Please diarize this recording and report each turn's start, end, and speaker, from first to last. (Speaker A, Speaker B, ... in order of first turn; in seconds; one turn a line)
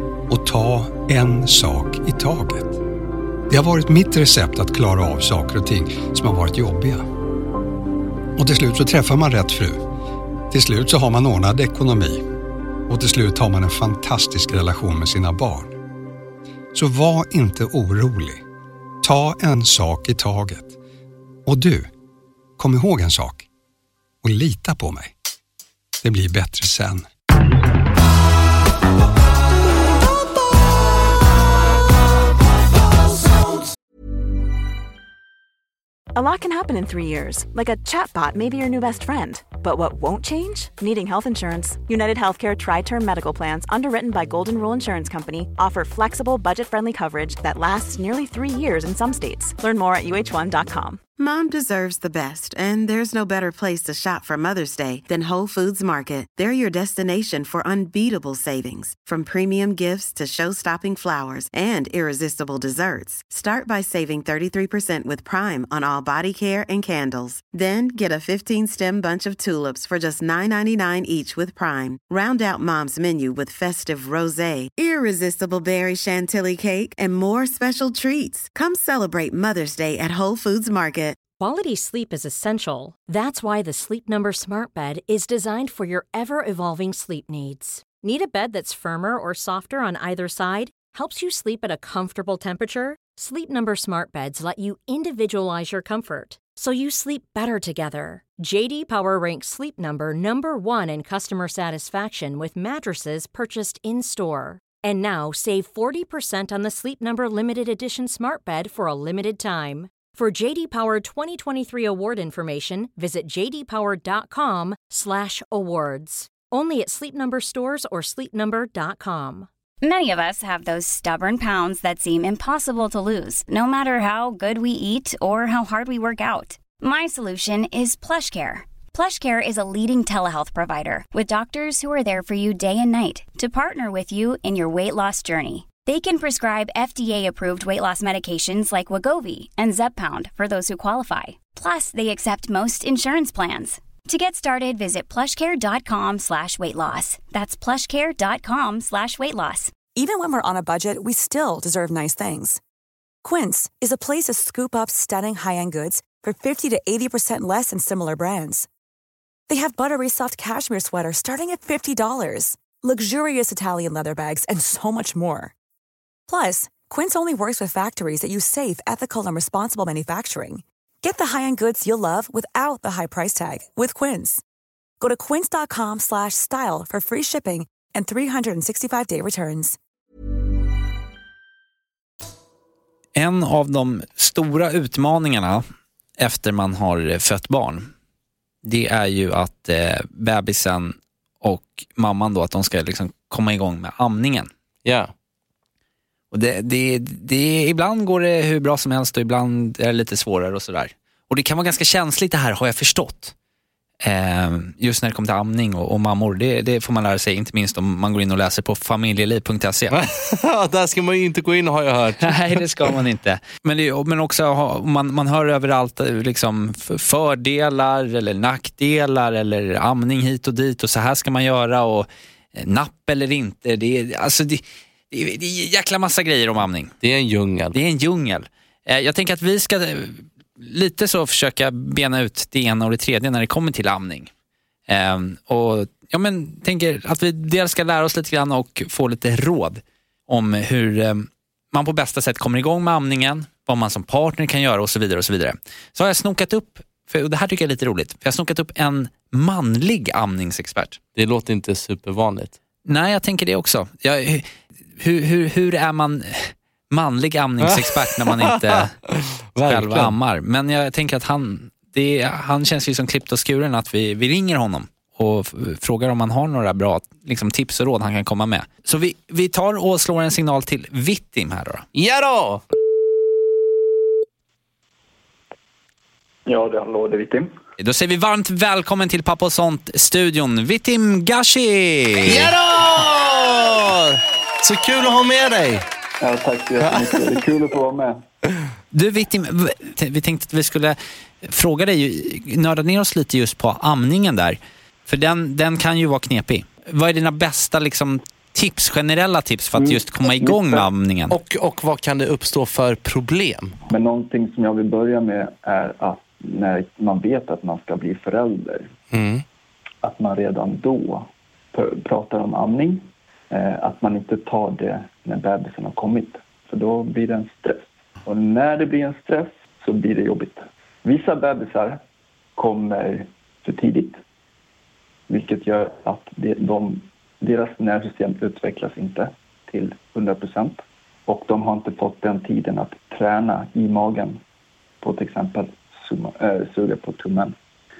Speaker A: 0.3-2.8
Speaker A: 3.5-7.1
Speaker A: 8.3-9.8
Speaker A: 10.5-12.2
Speaker A: 12.9-15.8
Speaker A: 16.7-18.4
Speaker A: 19.0-20.7
Speaker A: 21.4-21.9
Speaker A: 22.6-23.4
Speaker A: 24.2-25.1
Speaker A: 26.0-27.1
Speaker B: 36.1-51.0
Speaker C: 51.2-81.2
Speaker D: 81.4-119.5
Speaker E: 119.8-149.8
Speaker F: 149.9-152.6
Speaker F: 153.2-158.7
Speaker F: 159.5-165.5
Speaker F: 166.3-174.4
Speaker F: 175.0-179.8
Speaker G: 183.2-185.6
Speaker G: 186.2-187.9
Speaker G: 188.6-194.5
Speaker H: 194.8-195.1
Speaker G: 196.3-203.3
Speaker G: 204.0-209.9
Speaker H: 209.9-212.6
Speaker G: 212.2-226.9
Speaker H: 227.0-227.7
Speaker G: 227.7-234.3
Speaker G: 234.9-251.0
Speaker H: 251.2-252.5
Speaker G: 252.8-254.5
Speaker G: 255.0-258.9
Speaker H: 258.4-258.8
Speaker H: 259.5-260.1
Speaker G: 259.7-271.8
Speaker H: 271.9-272.6
Speaker I: 276.4-277.5
Speaker G: 277.8-282.5
Speaker H: 282.2-285.8
Speaker I: 286.2-288.2
Speaker H: 286.9-287.2
Speaker G: 288.9-301.4
Speaker I: 299.8-300.8
Speaker H: 301.3-303.7
Speaker I: 303.9-308.9
Speaker H: 309.1-309.4
Speaker I: 310.0-322.0
Speaker I: 322.6-324.2
Speaker I: 325.3-334.4
Speaker I: 335.0-337.5